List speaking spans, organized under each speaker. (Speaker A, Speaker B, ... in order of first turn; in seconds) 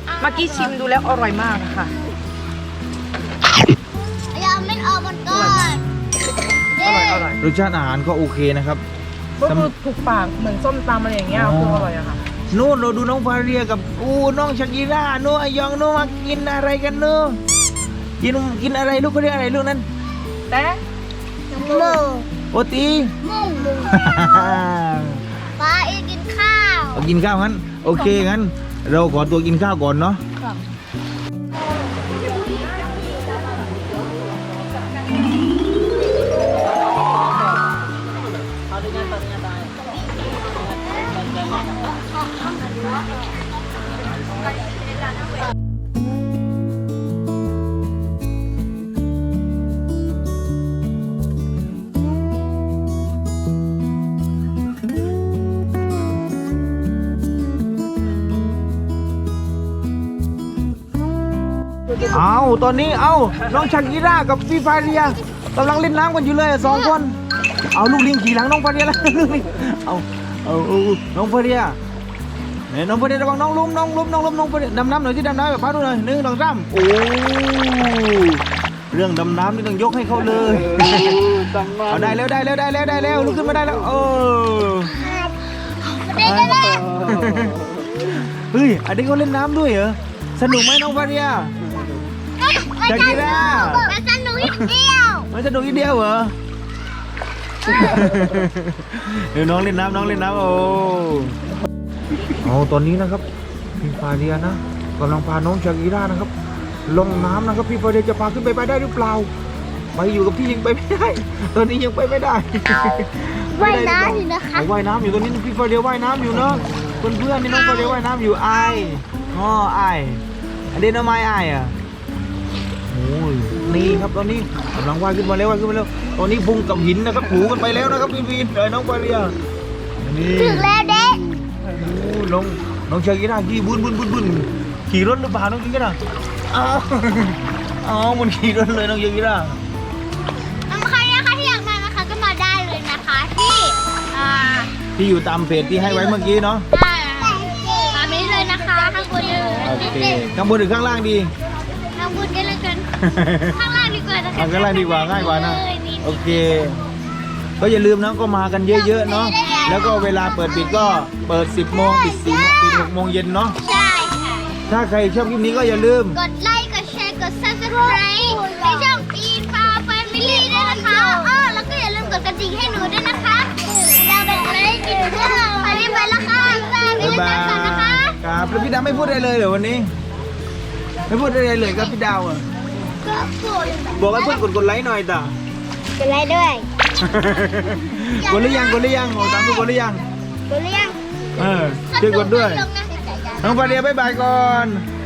Speaker A: 0.2-1.9, 5.3-5.8, 6.8-7.4, 9.4-12.2, 20.5-20.8
Speaker B: 4.3-5.8, 6.8-7.3, 21.5-22.3, 23.2-24.2, 25.6-27.1, 85.0-87.0, 92.4-95.3, 113.5-114.7, 117.5-118.9, 123.7-124.0, 130.3-131.3, 140.7-144.7, 145.9-146.2, 146.7-150.3, 152.0-152.9, 153.4-156.5, 158.7-161.1, 161.7-162.9, 163.6-164.6, 165.3-178.2, 183.0-184.5, 186.0-186.7, 188.2-189.5, 190.5-191.0, 191.9-193.8
Speaker C: 5.6-6.1, 7.4-8.8, 9.4-9.7, 11.3-11.9, 12.5-17.4, 18.2-19.9, 21.6-22.0, 22.5-23.1, 23.9-25.2, 26.9-30.2, 62.0-67.2, 67.7-71.8, 72.7-84.9, 86.2-91.5, 92.9-93.9, 95.3-96.3, 97.7-101.4, 102.4-103.2, 103.8-106.3, 106.9-109.3, 110.0-120.2, 120.7-121.8, 122.9-129.3, 130.0-130.8, 131.7-136.0, 136.5-139.6, 145.0-146.7, 149.6-151.3, 153.0-153.6, 154.3-156.8, 157.6-163.6, 164.7-166.2, 177.0-179.9, 181.1-182.4, 183.9-185.3, 187.0-190.0, 191.4-192.7, 193.4-194.8